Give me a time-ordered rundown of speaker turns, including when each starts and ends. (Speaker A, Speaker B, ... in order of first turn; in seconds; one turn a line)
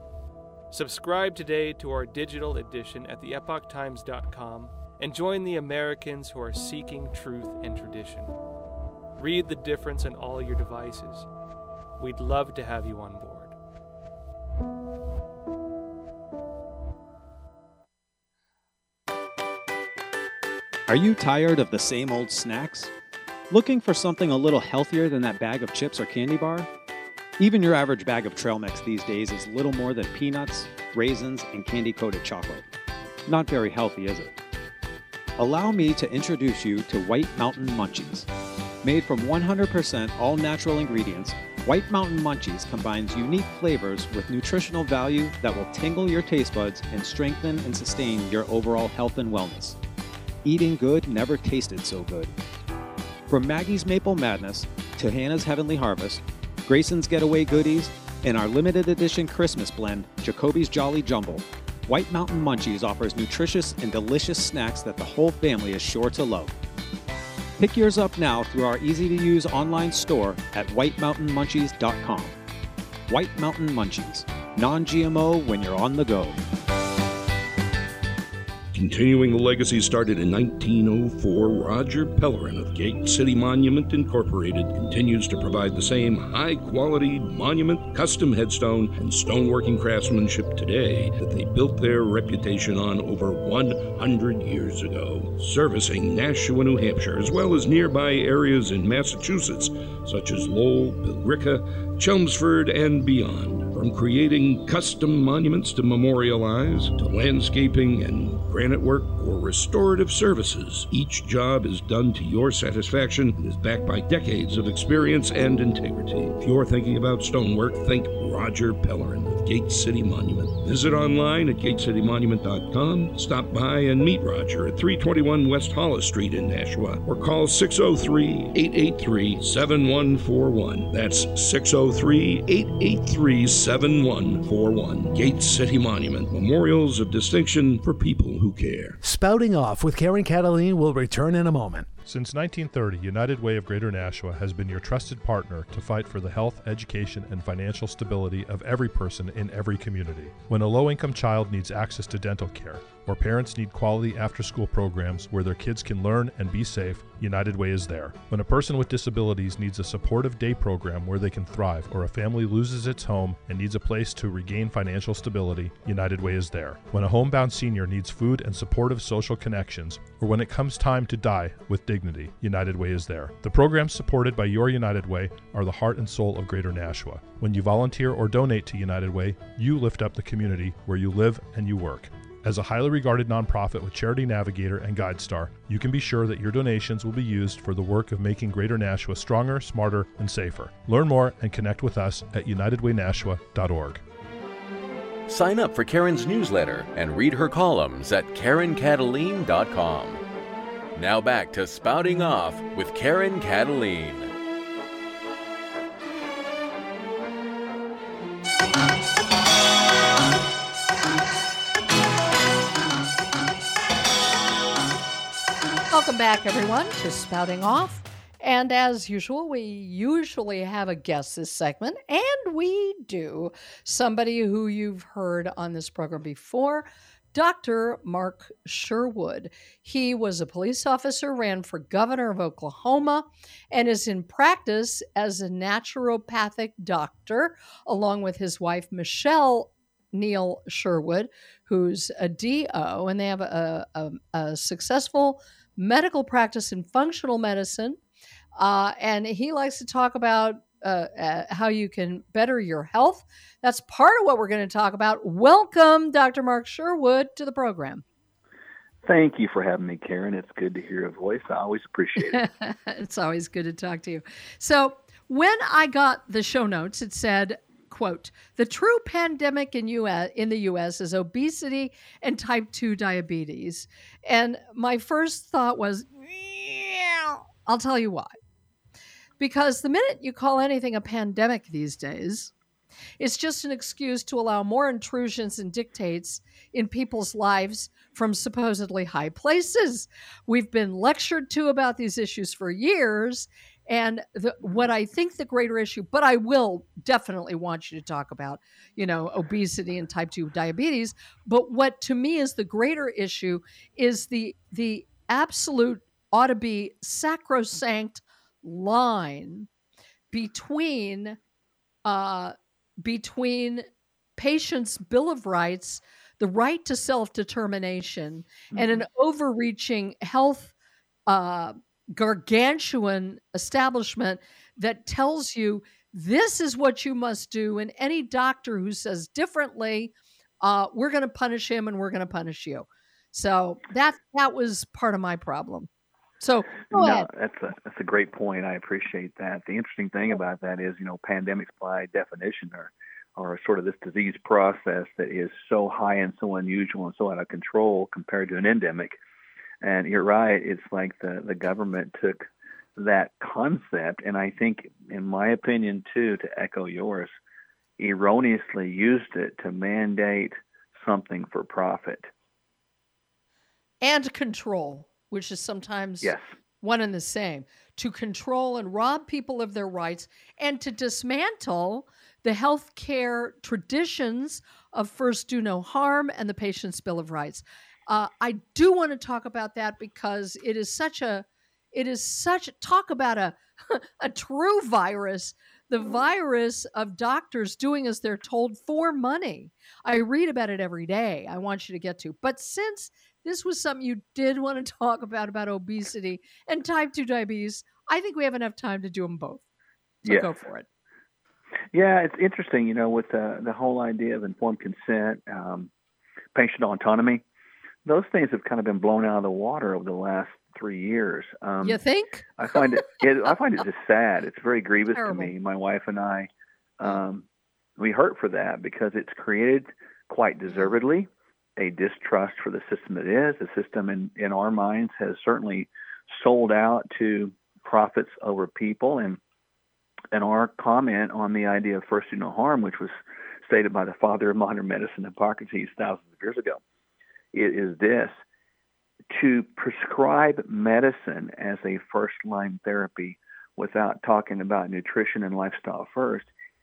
Speaker A: 0.7-8.3
Speaker A: 9.2-11.3
Speaker A: 12.0-13.5
Speaker B: 20.9-22.9
Speaker B: 23.5-26.7
Speaker B: 27.4-32.7
Speaker B: 33.2-34.4
Speaker B: 35.4-38.3
Speaker B: 38.8-49.8
Speaker B: 50.4-52.3
Speaker B: 53.3-66.5
Speaker B: 67.6-72.3
Speaker B: 73.1-76.4
Speaker C: 78.7-139.0
Speaker D: 139.0-141.9
Speaker E: 142.1-194.0
Speaker F: 195.3-200.2
Speaker F: 200.9-204.3
Speaker G: 215.9-248.0
Speaker G: 248.6-258.0
Speaker H: 259.0-262.4
Speaker G: 262.2-278.3
Speaker G: 279.4-282.5
Speaker G: 283.2-309.7
Speaker G: 310.3-311.4
Speaker G: 312.0-313.8
Speaker G: 314.4-320.7
Speaker H: 318.7-319.0
Speaker G: 321.3-335.9
Speaker G: 336.4-337.3
Speaker H: 336.9-349.1
Speaker H: 349.8-352.4
Speaker H: 353.0-357.4
Speaker H: 358.0-362.3
Speaker G: 364.0-399.6
Speaker G: 400.2-400.8
Speaker H: 400.2-400.6
Speaker H: 401.9-405.9
Speaker H: 406.5-407.4
Speaker H: 408.0-412.0
Speaker G: 411.8-412.5
Speaker H: 412.6-416.5
Speaker G: 415.1-415.5
Speaker H: 417.0-417.4
Speaker H: 418.0-429.4
Speaker G: 420.7-420.9
Speaker H: 430.3-436.8
Speaker H: 437.5-438.4
Speaker H: 439.3-446.5